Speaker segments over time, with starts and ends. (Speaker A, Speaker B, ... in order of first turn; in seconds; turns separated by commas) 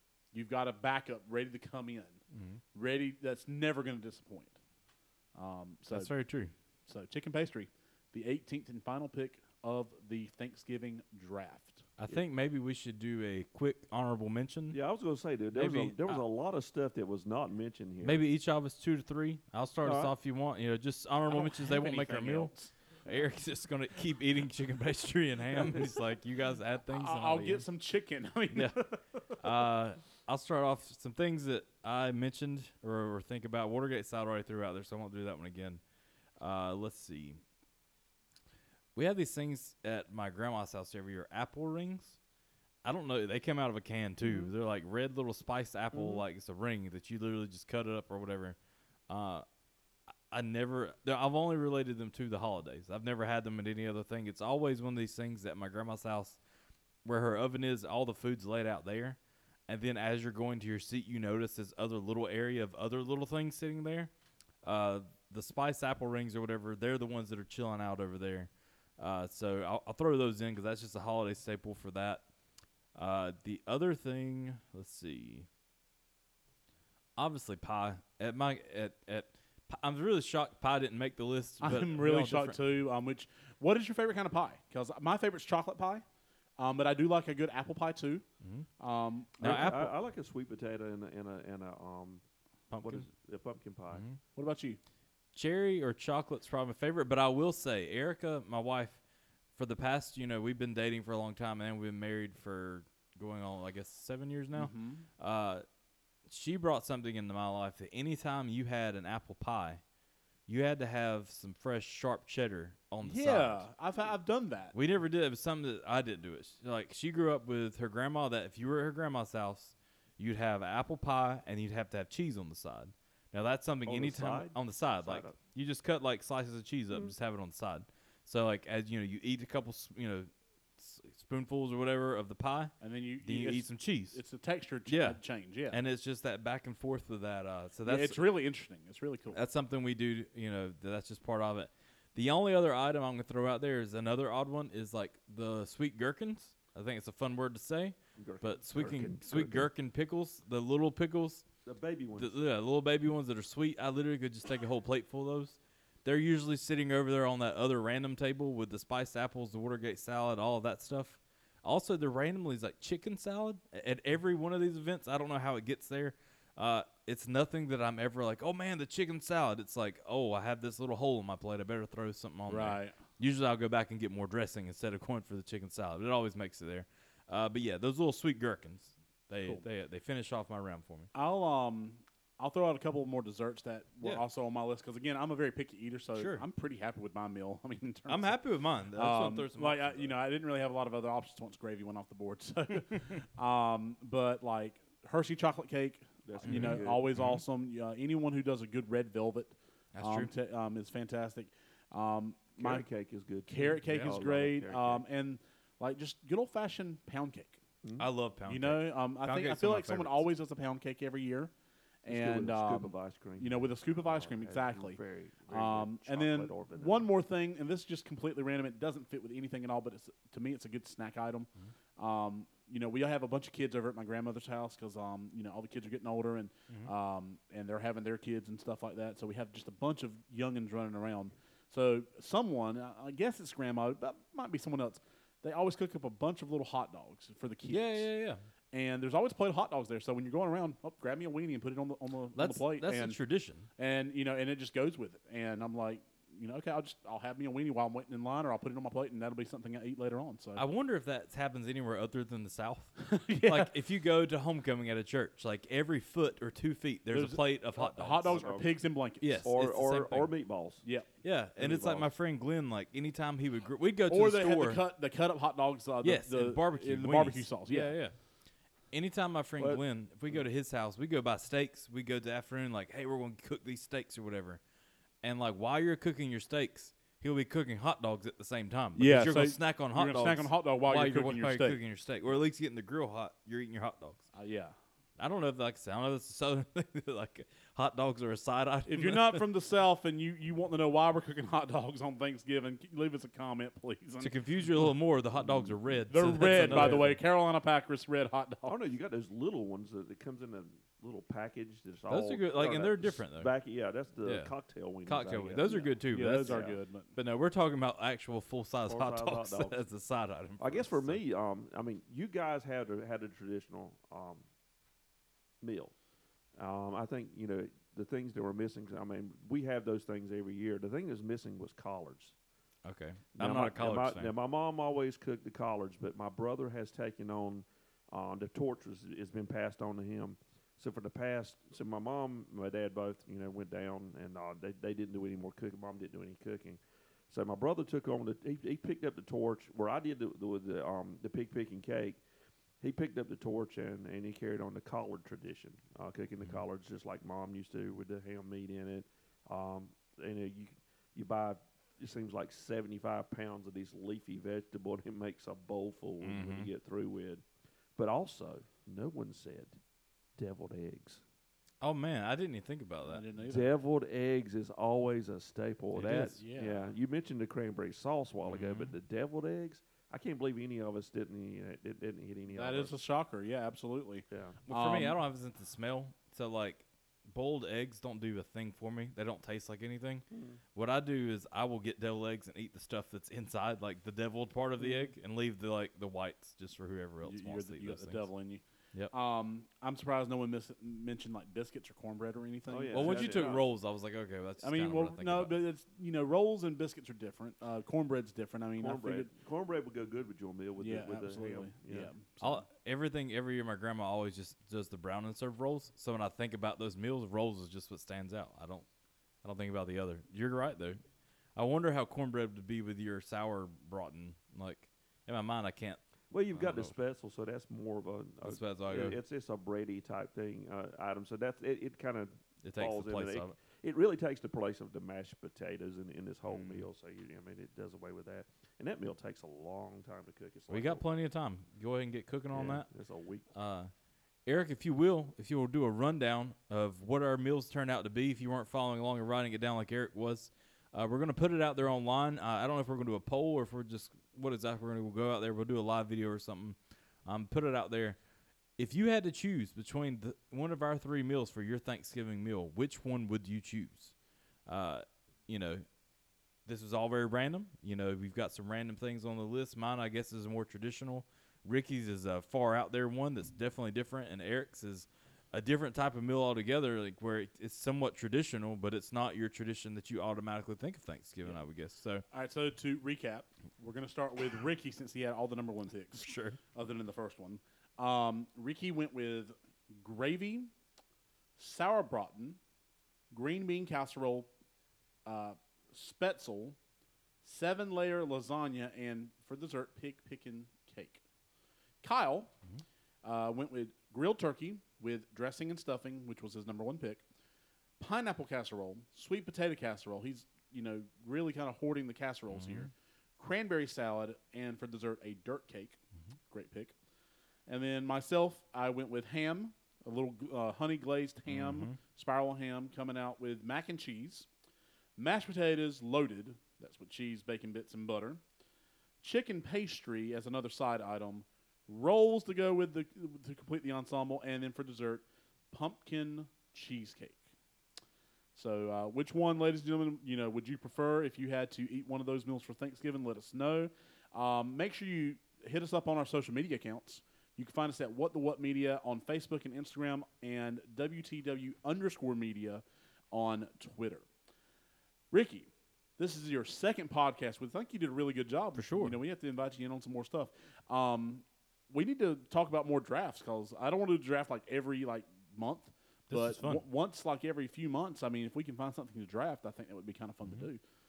Speaker A: 0.3-2.2, Speaker B: 2.3-2.6, Speaker A: 2.7-4.5, Speaker A: 5.3-6.1, Speaker B: 5.9-6.5, Speaker A: 6.9-11.8, Speaker B: 12.0-14.8, Speaker C: 14.7-18.2, Speaker B: 15.5-16.2, Speaker B: 18.0-22.5, Speaker C: 19.8-20.1, Speaker A: 21.3-22.7, Speaker B: 23.0-27.6, Speaker A: 26.9-29.4, Speaker B: 28.5-28.8, Speaker B: 29.4-35.8, Speaker B: 36.4-37.4, Speaker B: 38.9-42.2, Speaker B: 42.8-48.5, Speaker C: 45.9-46.2, Speaker B: 49.1-49.4, Speaker B: 50.3-56.4, Speaker B: 57.0-64.1, Speaker B: 64.6-72.2, Speaker B: 72.9-75.5, Speaker B: 77.2-82.6, Speaker A: 81.6-86.0, Speaker A: 86.6-88.2, Speaker B: 88.4-88.7, Speaker A: 88.8-89.7, Speaker B: 89.4-89.9, Speaker C: 89.4-92.2, Speaker B: 92.7-93.0, Speaker C: 92.8-94.0, Speaker B: 93.9-94.2, Speaker A: 94.3-94.8, Speaker B: 95.3-99.0, Speaker B: 99.5-105.6, Speaker A: 104.5-105.0, Speaker B: 106.3-109.8, Speaker B: 110.5-113.6, Speaker A: 113.0-114.7, Speaker B: 114.7-134.2, Speaker C: 123.8-125.4, Speaker A: 132.8-135.8, Speaker B: 134.8-138.2, Speaker A: 137.8-139.4, Speaker B: 139.3-151.4, Speaker C: 148.2-149.7, Speaker C: 151.6-152.3, Speaker B: 152.2-181.1, Speaker A: 172.5-173.0, Speaker A: 181.1-188.4, Speaker B: 186.1-186.4, Speaker B: 188.1-190.1, Speaker A: 188.9-202.8, Speaker C: 196.2-197.1, Speaker B: 196.5-197.4, Speaker B: 199.9-200.3, Speaker C: 202.6-205.0, Speaker A: 203.5-207.6, Speaker C: 207.8-208.1, Speaker B: 208.0-210.2, Speaker A: 208.4-211.5, Speaker A: 212.0-238.1, Speaker C: 212.1-217.1, Speaker B: 237.7-238.4, Speaker A: 238.7-243.2, Speaker B: 242.3-243.7, Speaker A: 243.8-250.6, Speaker B: 250.6-258.6, Speaker A: 253.0-253.7, Speaker A: 257.1-259.4, Speaker C: 258.2-258.8, Speaker B: 259.2-260.3, Speaker C: 259.4-260.8, Speaker A: 260.8-261.1, Speaker B: 261.2-264.8, Speaker C: 261.6-262.1, Speaker A: 264.1-267.9, Speaker B: 266.0-268.1, Speaker B: 268.9-274.6, Speaker B: 275.2-284.3, Speaker A: 278.9-281.8, Speaker A: 284.3-284.7, Speaker B: 285.2-289.4, Speaker A: 288.9-294.3, Speaker B: 294.2-297.2, Speaker C: 295.3-297.1, Speaker A: 296.1-298.7, Speaker C: 298.6-306.8, Speaker B: 302.1-303.5, Speaker B: 304.2-304.5, Speaker B: 305.0-311.2, Speaker A: 306.1-307.1, Speaker C: 308.9-309.8, Speaker C: 310.6-314.4, Speaker C: 315.6-315.9, Speaker C: 316.6-322.3, Speaker B: 322.8-324.3, Speaker C: 323.4-342.2, Speaker C: 342.8-357.4, Speaker B: 356.2-356.7, Speaker C: 357.9-359.8, Speaker C: 360.4-361.2, Speaker B: 361.8-363.2, Speaker A: 363.1-363.7, Speaker C: 363.4-372.9, Speaker B: 365.9-366.3, Speaker A: 366.1-366.9, Speaker B: 368.5-368.9, Speaker A: 372.5-375.2, Speaker C: 374.3-374.6, Speaker B: 374.7-388.3, Speaker C: 380.3-380.6, Speaker A: 387.2-393.6, Speaker C: 392.7-393.6, Speaker B: 392.9-395.6, Speaker A: 394.6-399.3, Speaker C: 398.8-402.1, Speaker A: 400.8-402.6, Speaker B: 402.4-408.9, Speaker B: 409.4-411.0, Speaker B: 411.6-416.0, Speaker C: 416.3-431.1, Speaker B: 416.5-416.9, Speaker B: 418.4-419.2, Speaker B: 422.6-423.5, Speaker B: 426.4-426.9, Speaker B: 430.7-432.9, Speaker C: 432.5-433.4, Speaker B: 433.5-433.9, Speaker B: 434.4-448.2, Speaker B: 448.8-454.1, Speaker B: 454.6-455.8, Speaker B: 456.6-472.2, Speaker A: 472.3-480.7, Speaker B: 476.2-476.6, Speaker A: 481.6-482.6, Speaker A: 483.3-484.5, Speaker A: 485.2-486.8, Speaker A: 487.4-491.2, Speaker A: 492.0-492.5, Speaker A: 493.2-497.2, Speaker A: 498.0-506.0, Speaker B: 502.5-502.9, Speaker A: 506.5-506.9, Speaker A: 507.7-514.5, Speaker B: 511.5-511.9, Speaker A: 515.2-518.4, Speaker A: 519.2-527.4, Speaker A: 528.5-544.2, Speaker A: 545.3-560.8, Speaker B: 548.7-549.2, Speaker B: 556.3-556.8